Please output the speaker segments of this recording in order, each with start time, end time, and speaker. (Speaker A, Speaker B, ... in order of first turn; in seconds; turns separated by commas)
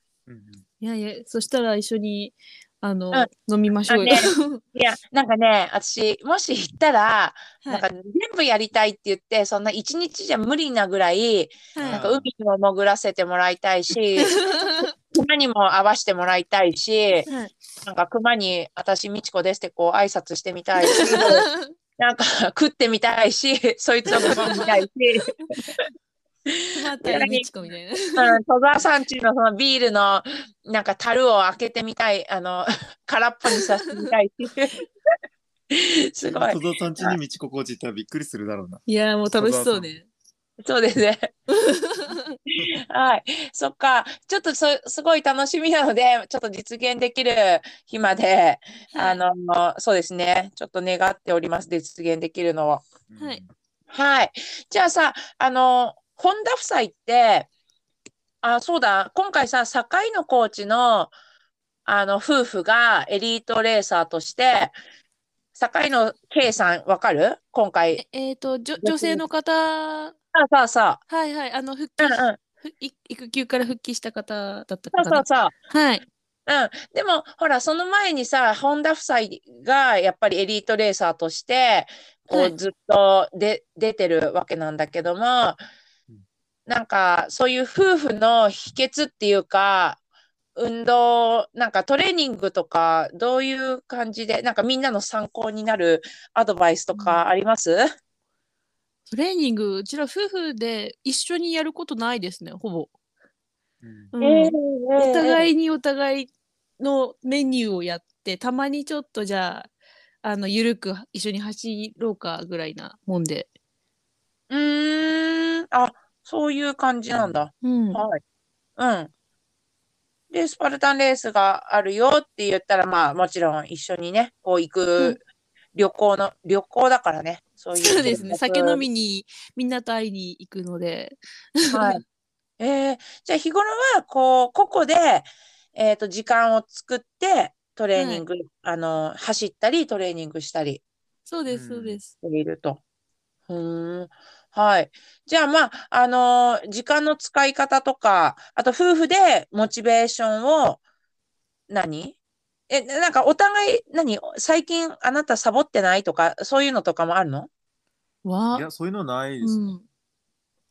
Speaker A: 0.3-0.6, Speaker B: 0.8-4.6, Speaker C: 3.9-14.3, Speaker B: 11.7-12.0, Speaker A: 11.8-12.3, Speaker B: 14.2-14.9, Speaker C: 15.1-17.3, Speaker B: 17.3-17.5, Speaker C: 17.8-25.6, Speaker B: 20.8-21.7, Speaker B: 24.1-24.7, Speaker A: 24.2-24.6, Speaker C: 26.5-27.4, Speaker B: 26.7-28.4, Speaker C: 28.1-34.8, Speaker C: 35.7-37.2, Speaker A: 36.2-38.8, Speaker B: 38.9-40.0, Speaker A: 39.4-39.9, Speaker C: 40.6-41.3, Speaker B: 41.5-42.4, Speaker C: 42.6-52.9, Speaker B: 48.9-49.2, Speaker A: 53.1-53.5, Speaker B: 53.2-53.4, Speaker C: 53.9-57.5, Speaker C: 58.4-61.1, Speaker C: 61.9-64.7, Speaker C: 65.5-68.0, Speaker B: 67.9-70.1, Speaker C: 68.8-69.2, Speaker C: 70.3-71.0, Speaker B: 71.1-76.0, Speaker C: 72.0-72.4, Speaker C: 74.9-75.5, Speaker C: 76.5-85.6, Speaker C: 86.7-90.0, Speaker C: 90.5-97.8, Speaker B: 96.9-97.2, Speaker B: 99.1-102.9, Speaker A: 103.8-104.1, Speaker B: 104.1-109.7, Speaker C: 104.2-105.5, Speaker B: 110.2-113.5, Speaker C: 114.5-118.2, Speaker A: 117.1-117.4, Speaker B: 117.6-118.0, Speaker C: 118.8-119.1, Speaker C: 120.3-125.2, Speaker C: 125.7-128.8, Speaker B: 127.7-132.0, Speaker A: 128.0-128.2, Speaker C: 131.7-132.0, Speaker C: 132.6-140.8, Speaker B: 137.9-138.2, Speaker B: 141.3-142.1, Speaker A: 141.5-142.0, Speaker C: 142.2-142.8, Speaker C: 143.5-150.8, Speaker C: 151.7-152.2, Speaker C: 152.7-157.5, Speaker B: 158.2-158.7, Speaker A: 158.5-159.7, Speaker B: 159.4-159.8